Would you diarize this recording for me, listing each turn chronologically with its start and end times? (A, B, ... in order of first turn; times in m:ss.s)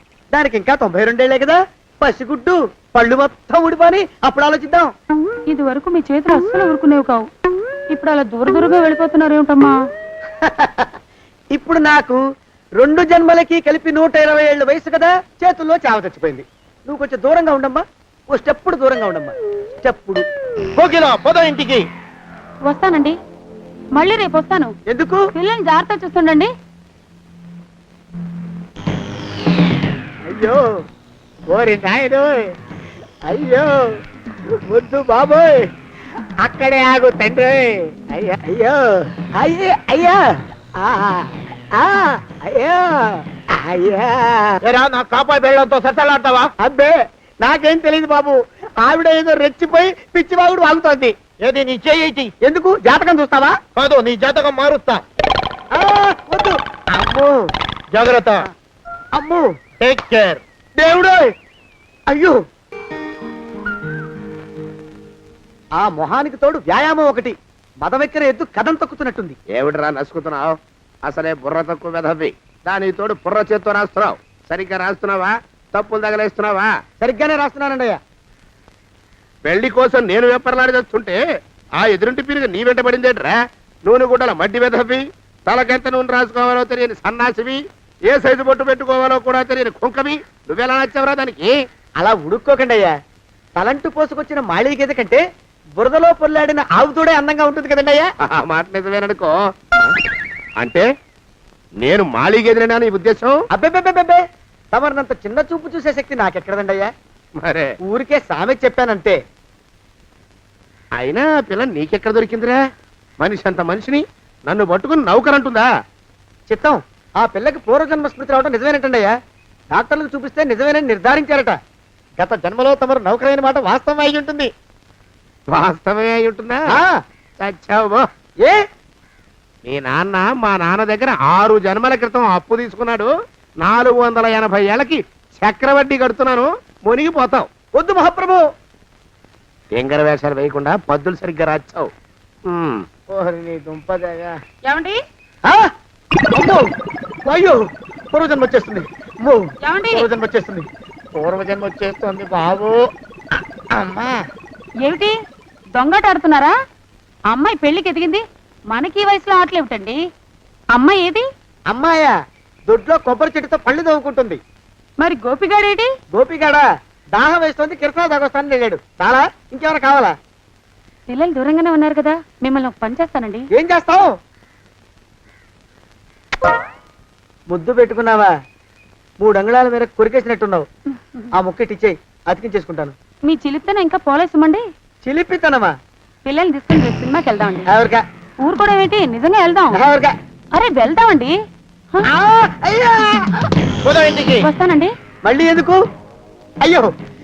0:00.3-0:04.9 A
0:05.5-0:07.2 B
0:07.9-0:09.7 B
0:10.4-0:10.9 A
0:11.5-0:12.2 A
0:12.8-0:20.2 A
0:20.8-0:21.8 A
0:22.6-0:23.2 B
0:23.9-0:24.7 B
0:24.9-0:25.2 A
0:25.3-0:26.5 B
0:30.3-0:30.6 A
0:31.5-0:32.3 A
0:33.3-0:33.8 A
0:34.7-0:35.6 A
0:38.1-0:40.2 A
0:40.8-0:44.6 A
0:46.6-0:51.2 A
0:52.4-0:53.6 A
0:55.7-0:57.4 A
0:58.0-0:58.3 C
0:59.1-0:59.4 A
0:59.8-1:00.4 C
1:00.8-1:01.2 A
1:02.1-1:02.4 A
1:05.8-1:09.4 A
1:09.5-1:16.7 C
1:17.0-1:18.0 A
1:19.4-1:21.2 C
1:21.8-1:31.5 C
1:32.0-1:32.9 A
1:33.6-1:35.2 A
1:35.8-1:38.1 A
1:38.2-1:39.3 C
1:40.6-1:40.8 C
1:41.8-1:43.3 C
1:43.5-1:44.2 A
1:44.7-1:46.9 A
1:47.4-1:47.7 C
1:47.8-1:49.2 A
1:51.0-1:52.6 C
1:53.2-1:55.7 C
1:56.5-1:59.1 A
1:59.7-2:01.6 A
2:02.2-2:04.5 A
2:05.5-2:06.7 C
2:06.7-2:07.0 A
2:07.4-2:08.0 C
2:09.6-2:13.1 C
2:13.6-2:17.5 C
2:17.7-2:18.4 A
2:19.7-2:21.9 C
2:22.5-2:22.8 C
2:23.1-2:24.3 A
2:24.7-2:25.0 B
2:26.3-2:26.7 A
2:27.3-2:27.6 A
2:28.1-2:30.7 A
2:29.6-2:30.1 B
2:32.2-2:32.5 A
2:33.7-2:34.1 A
2:34.8-2:35.1 B
2:35.7-2:36.5 B
2:37.3-2:40.0 B
2:40.7-2:41.2 B
2:41.7-2:42.1 A
2:42.7-2:44.4 A
2:45.0-2:45.9 B
2:46.1-2:50.1 A
2:51.1-2:53.4 B
2:53.5-2:54.1 A
2:57.5-2:58.3 A
2:59.2-3:00.7 A
3:01.3-3:03.0 A
3:03.2-3:04.6 B
3:05.0-3:05.7 A
3:06.2-3:07.7 B
3:07.7-3:08.0 A
3:08.4-3:09.8 B
3:09.7-3:10.1 A
3:10.5-3:11.3 B
3:12.0-3:14.4 A
3:14.4-3:14.9 B
3:15.2-3:15.8 A
3:16.6-3:16.9 A